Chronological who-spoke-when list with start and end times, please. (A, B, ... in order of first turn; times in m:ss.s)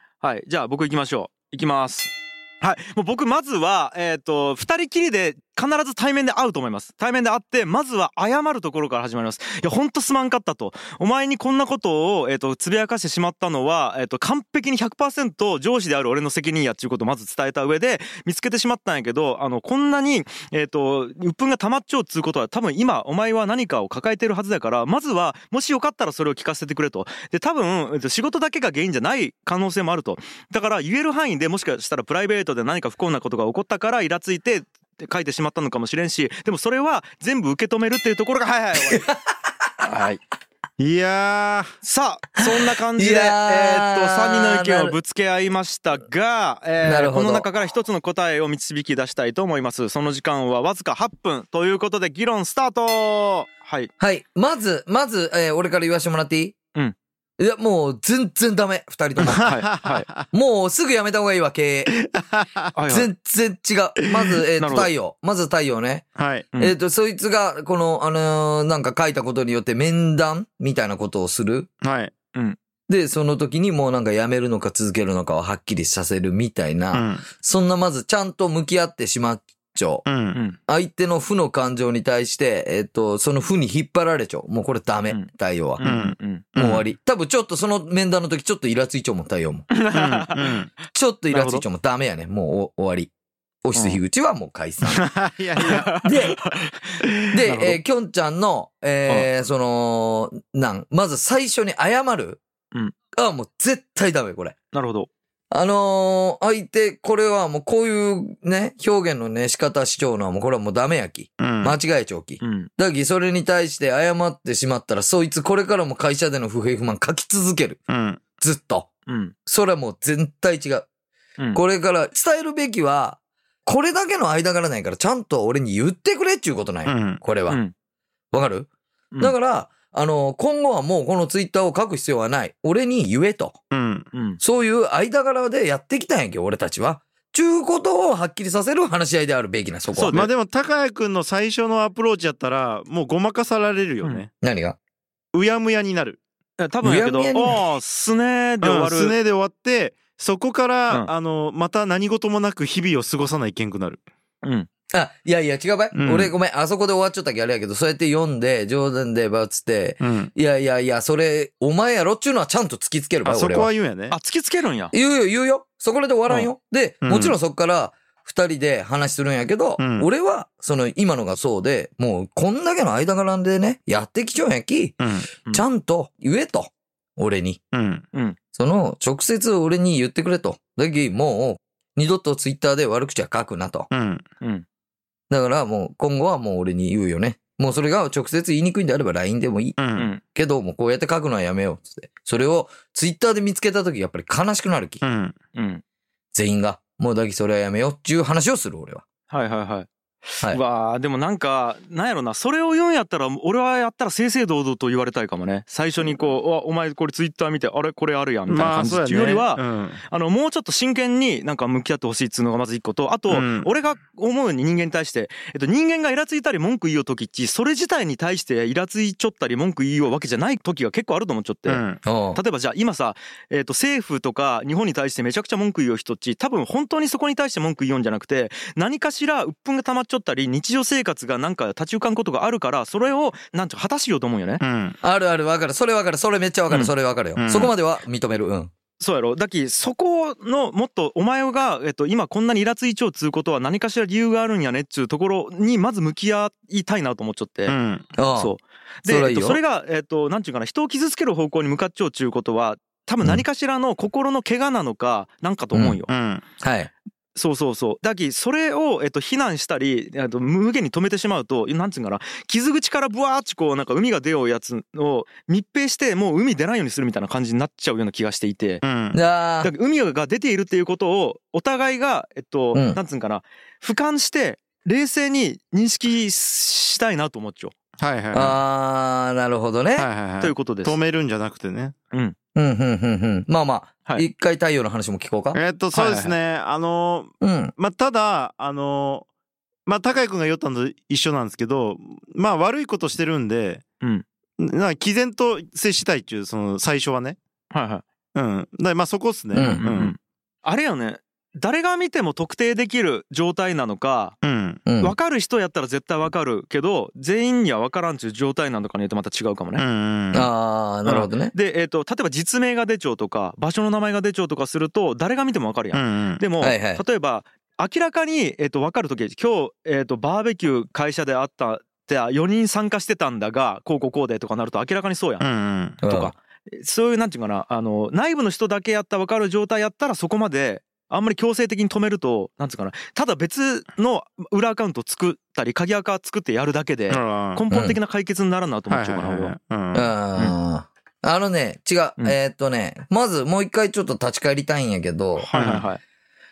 0:00.2-0:39.0 A
0:38.8-0:39.9 B
0:39.8-0:40.2 A
0:40.8-0:41.7 C
0:41.8-0:53.9 A
0:42.9-0:45.0 B
0:46.8-0:47.5 B
0:54.0-0:56.6 B
0:57.4-0:59.6 B
0:59.2-1:00.2 C
0:59.5-1:00.1 A
1:00.3-1:01.9 B
1:01.9-1:02.7 C
1:02.8-1:03.1 A
1:02.9-1:06.1 B
1:04.6-1:04.9 A
1:06.2-1:06.5 C
1:06.6-1:11.7 B
1:11.8-1:12.1 C
1:12.9-1:20.0 B
1:16.9-1:17.2 C
1:20.0-1:20.4 C
1:20.3-1:20.6 A
1:20.7-1:25.8 B
1:25.1-1:26.5 A
1:25.8-1:26.9 C
1:26.6-1:29.7 B
1:29.7-1:30.4 A
1:29.9-1:30.7 C
1:30.9-1:33.1 B
1:31.3-1:31.6 A
1:33.6-1:35.0 B
1:33.8-1:34.0 A
1:34.9-1:35.9 C
1:35.6-1:37.8 A
1:36.0-1:36.4 B
1:37.3-1:42.4 B
1:43.2-1:44.6 B
1:44.7-1:45.1 A
1:45.5-1:57.8 B
1:51.4-1:51.8 C
1:52.4-1:52.7 A
1:57.9-1:58.2 C
1:58.4-1:58.9 B
1:59.1-1:59.4 A
1:59.5-2:00.9 B
2:01.6-2:07.6 B
2:06.9-2:07.2 C
2:08.3-2:08.7 B
2:09.2-2:13.6 B
2:13.7-2:14.1 C
2:14.1-2:14.4 A
2:14.4-2:20.2 B
2:19.9-2:20.3 A
2:20.1-2:24.3 C
2:24.4-2:24.8 B
2:25.3-2:26.2 C
2:26.6-2:29.2 A
2:26.8-2:27.6 B
2:28.6-2:34.0 C
2:34.4-2:34.7 A
2:34.9-2:43.7 B
2:35.9-2:36.3 C
2:40.0-2:40.3 C
2:43.2-2:44.2 C
2:44.1-2:44.9 A
2:44.9-2:57.6 B
2:47.0-2:47.4 C
2:49.8-2:50.1 C
2:55.0-2:55.3 C
2:57.7-2:58.0 C
2:58.6-3:03.9 B
3:03.9-3:04.2 C
3:05.3-3:15.0 B
3:09.8-3:10.1 C
3:10.0-3:10.2 A
3:15.0-3:15.3 C
3:15.6-3:15.8 A
3:16.3-3:19.0 B
3:19.3-3:54.6 A
3:28.5-3:30.0 C
3:33.3-3:33.7 C
3:41.7-3:42.0 C
3:42.0-3:42.4 B
3:54.6-3:55.0 C
3:55.0-3:58.7 B
3:57.4-3:57.7 C
3:59.0-4:16.1 A
4:07.7-4:08.1 C
4:08.2-4:08.5 B
4:09.0-4:09.6 B
4:15.7-4:16.0 B
4:16.1-4:16.4 C
4:16.6-4:16.9 B
4:17.3-4:28.8 A
4:28.8-4:29.2 C
4:29.1-4:29.7 B
4:29.6-4:37.7 A
4:32.7-4:33.0 B
4:38.0-4:38.6 C
4:38.3-4:40.1 B
4:40.0-4:41.9 C
4:40.4-4:41.0 A
4:42.6-4:45.6 B
4:45.5-4:49.2 C
4:45.9-4:46.4 A
4:47.4-4:47.7 B
4:49.9-4:53.8 C
4:54.6-4:57.4 C
4:57.7-4:58.0 A
4:58.4-5:00.2 C
4:59.5-4:59.9 B
4:59.7-5:04.4 A
5:04.4-5:04.8 C
5:04.9-5:05.2 B
5:05.0-5:09.8 A
5:09.8-5:10.5 C
5:10.3-5:11.5 B
5:11.0-5:25.5 A
5:15.9-5:16.4 C
5:16.6-5:17.0 B
5:25.4-5:26.0 C
5:26.0-5:26.3 B
5:26.0-5:39.6 A
5:37.1-5:37.6 C
5:37.7-5:38.0 B
5:38.9-5:40.1 C
5:39.9-5:45.5 B
5:45.4-5:46.0 A
5:45.5-5:45.9 C